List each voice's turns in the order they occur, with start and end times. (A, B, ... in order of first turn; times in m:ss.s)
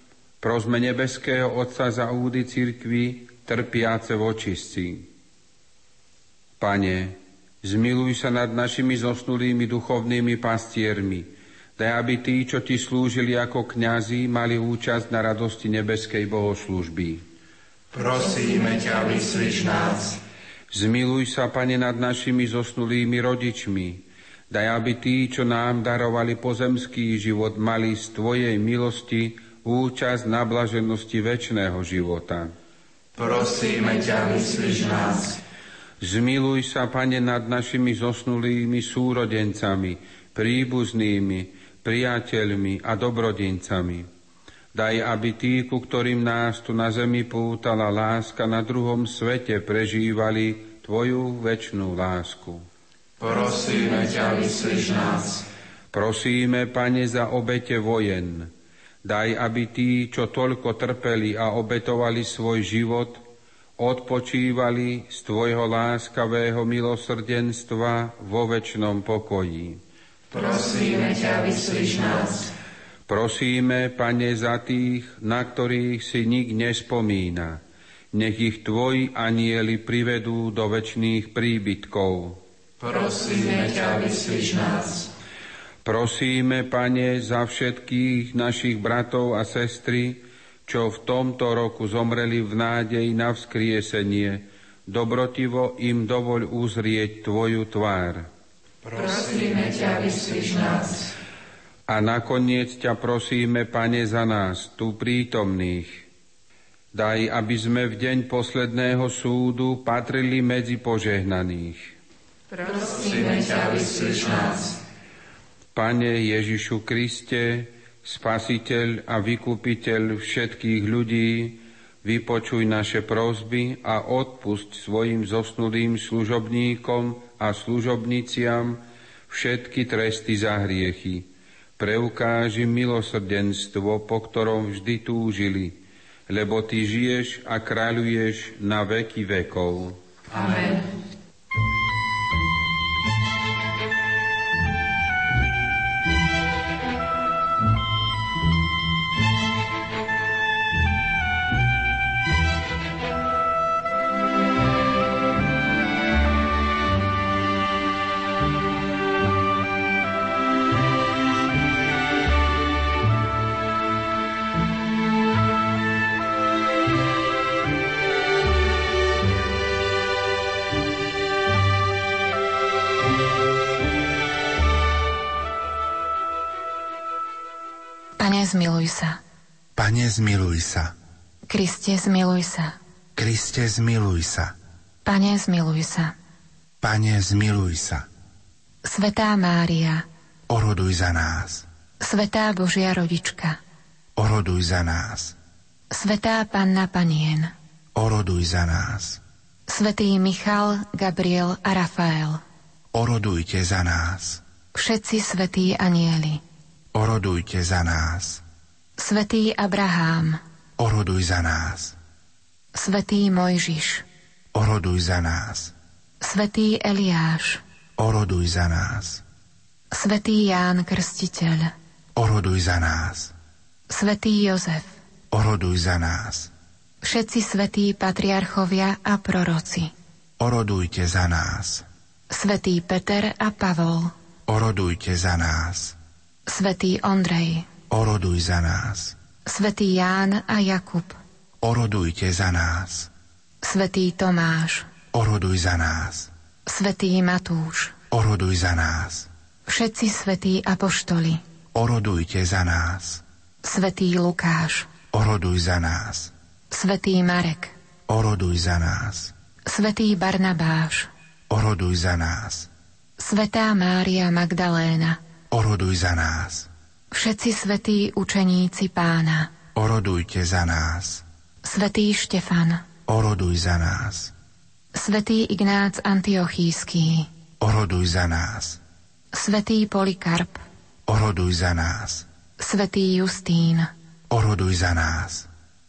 0:00.4-0:05.1 A
0:06.6-0:17.2 A
0:17.9-0:20.2 B
0:20.7-0:32.5 A
0:33.2-0:35.4 B
0:36.0-0:44.1 A
0:44.7-0:52.6 A
0:53.2-0:55.4 B
0:55.9-0:58.5 A
0:59.0-1:03.2 A
1:03.8-1:09.8 A
1:10.3-1:12.5 B
1:13.1-1:17.6 A
1:18.1-1:22.4 A
1:22.8-1:25.1 B
1:25.8-1:38.3 A
1:38.9-1:41.1 B
1:41.9-1:46.0 A
1:46.9-1:51.9 A
1:52.6-1:54.8 B
1:55.7-2:20.0 A
2:20.3-2:20.8 B
2:58.2-2:59.2 C
2:59.7-3:00.9 D
3:01.5-3:02.7 C
3:03.2-3:04.5 D
3:05.0-3:06.1 C
3:06.8-3:08.0 D
3:08.8-3:10.0 C
3:10.5-3:11.6 D
3:12.0-3:13.6 C
3:14.2-3:15.4 D
3:15.9-3:17.5 C
3:17.9-3:19.2 D
3:19.7-3:22.4 C
3:22.9-3:24.4 D
3:24.7-3:26.4 C
3:26.9-3:28.4 D
3:29.0-3:30.4 C
3:30.8-3:32.0 D
3:32.7-3:34.0 C
3:34.5-3:35.7 D
3:36.2-3:37.6 C
3:38.0-3:39.2 D
3:39.9-3:41.7 C
3:42.1-3:43.3 D
3:43.9-3:45.0 C
3:45.3-3:46.5 D
3:47.0-3:49.9 C
3:50.4-3:51.8 D
3:52.3-3:54.1 C
3:54.5-3:56.0 D
3:56.4-3:57.7 C
3:57.9-3:59.2 D
3:59.4-4:01.2 C
4:01.6-4:03.1 D
4:03.6-4:04.9 C
4:05.1-4:06.3 D
4:06.7-4:07.9 C
4:08.1-4:09.3 D
4:09.7-4:11.4 C
4:11.7-4:13.2 D
4:13.6-4:14.9 C
4:15.1-4:16.3 D
4:16.7-4:17.7 C
4:18.1-4:19.3 D
4:19.6-4:21.1 C
4:21.5-4:22.7 D
4:23.2-4:25.2 C
4:25.5-4:26.7 D
4:27.1-4:29.5 C
4:29.7-4:31.2 D
4:31.6-4:32.8 C
4:33.1-4:34.3 D
4:34.9-4:37.3 C
4:37.6-4:38.8 D
4:39.3-4:40.6 C
4:41.1-4:42.2 D
4:42.6-4:43.9 C
4:44.3-4:45.5 D